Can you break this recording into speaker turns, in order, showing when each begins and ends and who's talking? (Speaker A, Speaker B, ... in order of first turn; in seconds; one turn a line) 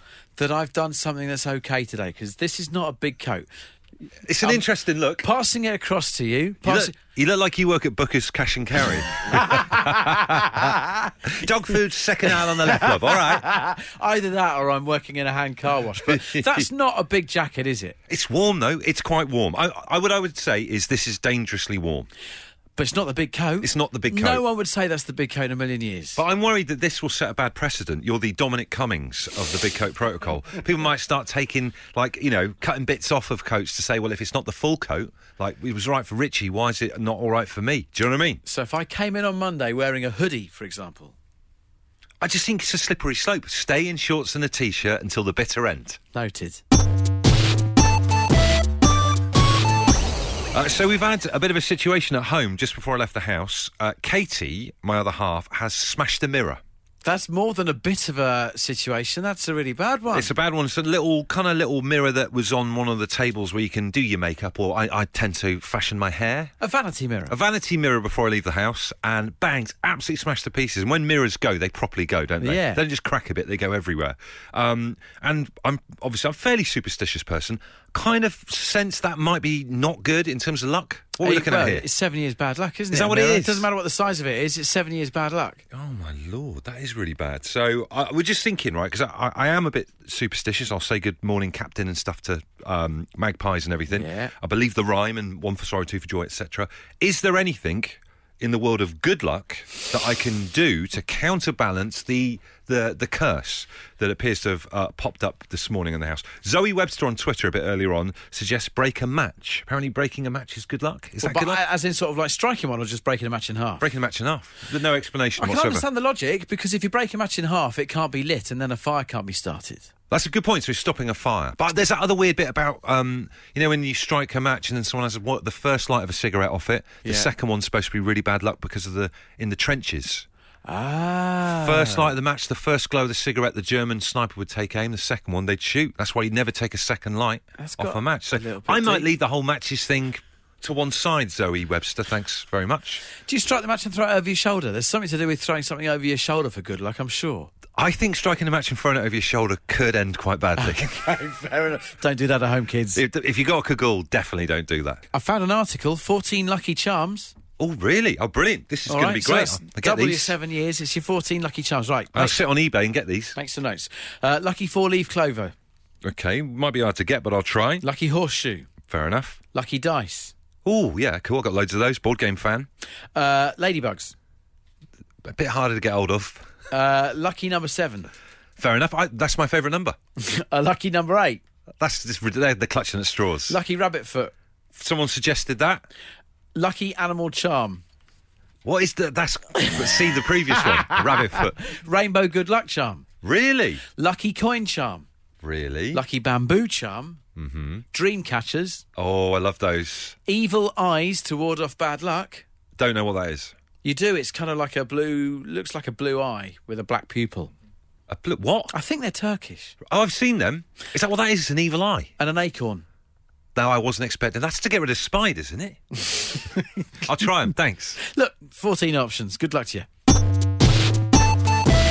Speaker A: 0.3-3.5
Speaker B: 4.3-5.2
Speaker A: 5.2-7.0
Speaker B: 6.6-10.7
Speaker A: 9.4-10.7
Speaker B: 11.3-13.4
Speaker A: 12.6-17.9
Speaker B: 16.0-16.7
Speaker B: 18.1-22.1
Speaker A: 22.8-26.2
Speaker B: 23.6-24.4
Speaker B: 26.1-38.4
Speaker A: 38.4-41.1
Speaker B: 42.2-46.0
Speaker A: 46.1-46.6
Speaker B: 50.5-56.6
Speaker A: 57.0-60.3
Speaker B: 60.1-66.5
Speaker A: 66.6-67.3
Speaker B: 67.3-81.8
Speaker A: 72.4-72.8
Speaker A: 81.2-85.6
Speaker B: 82.9-83.7
Speaker B: 85.7-111.6
Speaker A: 93.9-94.3
Speaker A: 111.2-113.8
Speaker B: 113.8-115.8
Speaker A: 115.4-119.9
Speaker B: 120.1-130.2
Speaker A: 127.0-127.3
Speaker A: 130.6-132.1
Speaker B: 131.6-143.0
Speaker A: 137.6-139.1
Speaker A: 143.2-147.5
Speaker B: 147.8-151.0
Speaker A: 150.6-153.0
Speaker B: 152.9-155.0
Speaker A: 155.1-157.3
Speaker B: 157.6-160.3
Speaker A: 158.9-162.4
Speaker B: 162.1-163.4
Speaker A: 163.3-165.5
Speaker B: 166.0-167.8
Speaker A: 167.8-168.7
Speaker B: 168.9-169.4
Speaker A: 169.5-170.3
Speaker B: 170.6-172.7
Speaker A: 173.1-174.1
Speaker B: 175.2-176.4
Speaker A: 176.7-178.1
Speaker B: 178.6-180.0
Speaker A: 180.2-181.4
Speaker B: 181.8-183.6
Speaker A: 183.5-184.3
Speaker B: 184.7-185.8
Speaker A: 186.5-187.8
Speaker B: 188.6-191.6
Speaker A: 190.6-193.0
Speaker B: 193.2-193.8
Speaker A: 193.9-195.1
Speaker B: 195.4-196.0
Speaker A: 195.9-197.2
Speaker B: 197.4-197.8
Speaker A: 197.9-198.8
Speaker B: 199.0-200.2
Speaker A: 200.2-202.4
Speaker B: 202.8-203.5
Speaker A: 203.8-207.5
Speaker B: 208.1-208.7
Speaker A: 208.7-209.8
Speaker B: 209.9-212.1
Speaker A: 212.2-212.8
Speaker B: 213.6-216.0
Speaker A: 216.3-216.8
Speaker B: 217.0-218.0
Speaker A: 218.0-219.9